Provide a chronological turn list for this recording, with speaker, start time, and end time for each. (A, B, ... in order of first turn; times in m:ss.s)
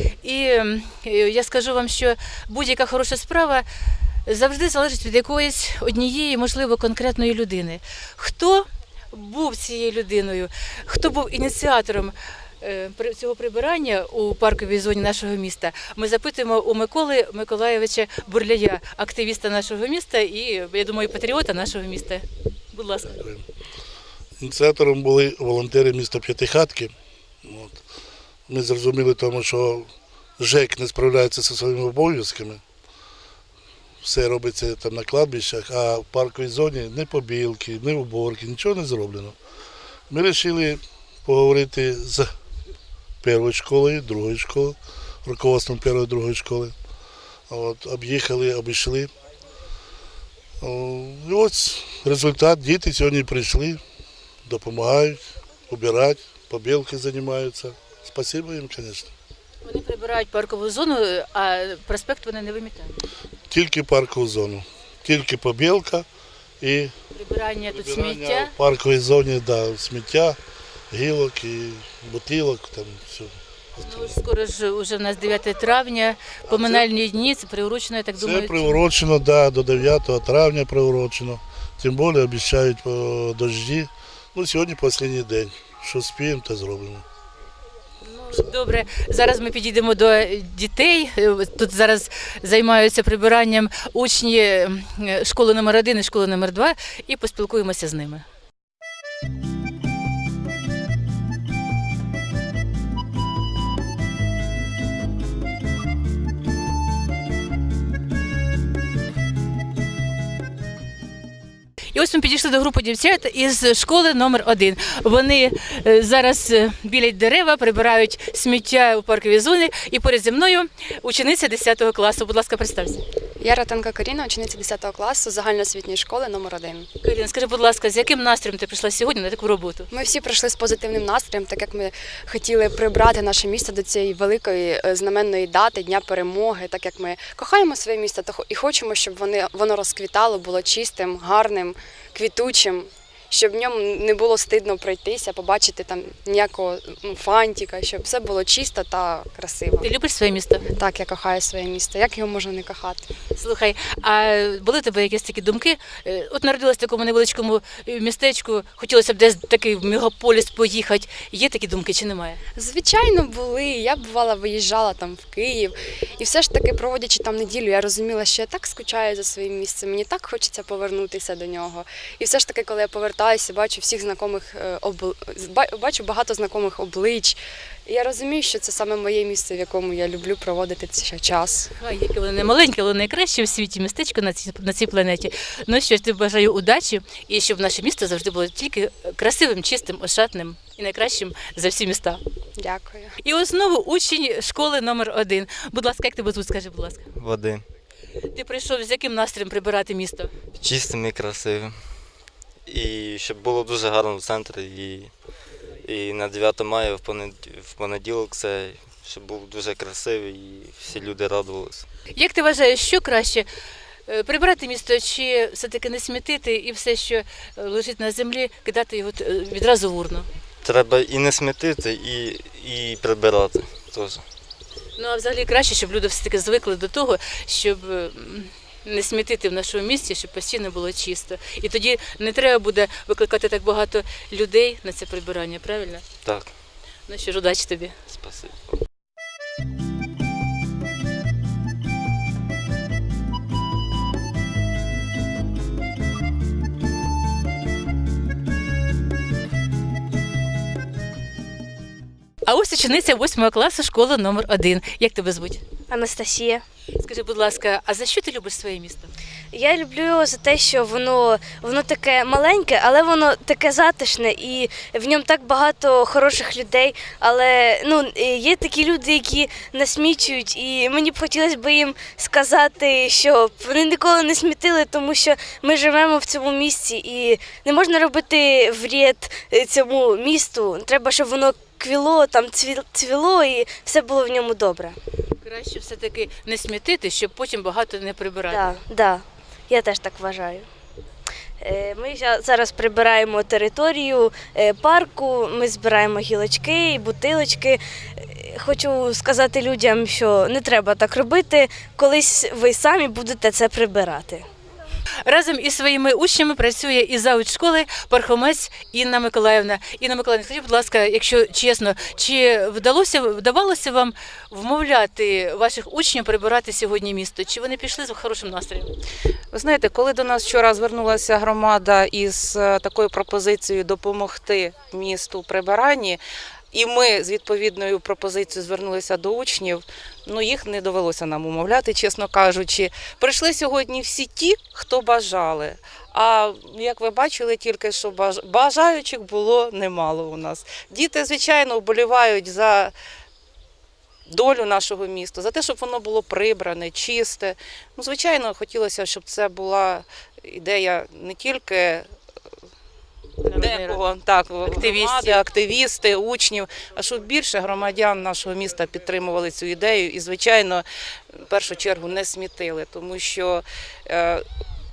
0:00.2-0:03.6 A
0:04.2-0:23.1 A
0:23.2-0:23.4 B
0:24.4-0:26.9 B
0:27.4-0:27.8 B
0:28.5-0:32.6 B
0:34.0-0:39.4 B
0:40.1-0:42.3 B
0:43.2-0:46.7 B
0:47.5-0:49.1 B
0:50.6-0:53.8 B
0:54.5-0:59.1 B
0:59.6-1:03.0 A
1:03.5-1:06.0 B
1:06.6-1:06.9 B
1:07.1-1:08.5 A
1:07.7-1:10.4 B
1:10.9-1:14.1 B
1:13.8-1:18.8 A
1:16.5-1:16.8 B
1:18.2-1:27.0 B
1:28.0-1:38.2 A
1:51.9-2:03.0 A
2:03.4-2:06.9 C
2:07.0-2:09.9 A
2:09.9-2:29.9 C
2:29.8-2:30.6 A
2:30.8-2:33.1 C
2:33.3-2:42.4 A
2:42.6-3:01.7 C
3:01.8-3:12.2 A
3:12.6-3:13.1 C
3:13.2-3:17.1 A
3:17.2-3:17.6 D
3:18.3-3:20.3 A
3:20.6-3:21.8 D
3:22.7-3:25.1 D
3:25.8-3:31.9 D
3:32.1-3:33.5 A
3:34.1-3:40.2 A
3:40.6-3:44.2 D
3:45.0-3:56.0 A
3:56.2-3:56.5 D
3:57.1-3:57.9 A
3:58.1-3:58.8 D
4:12.4-4:15.6 A
4:15.9-4:16.6 E
4:17.0-4:19.1 A
4:19.5-4:45.0 E
4:45.4-4:48.7 A
4:48.5-4:50.6 E
4:51.6-5:04.4 E
5:05.2-5:18.9 A
5:19.5-5:26.2 F
5:26.7-5:42.9 F
5:44.3-5:52.0 F
5:53.4-5:54.0 A
5:53.6-6:00.8 F
5:54.6-5:55.4 A
6:01.5-6:04.4 F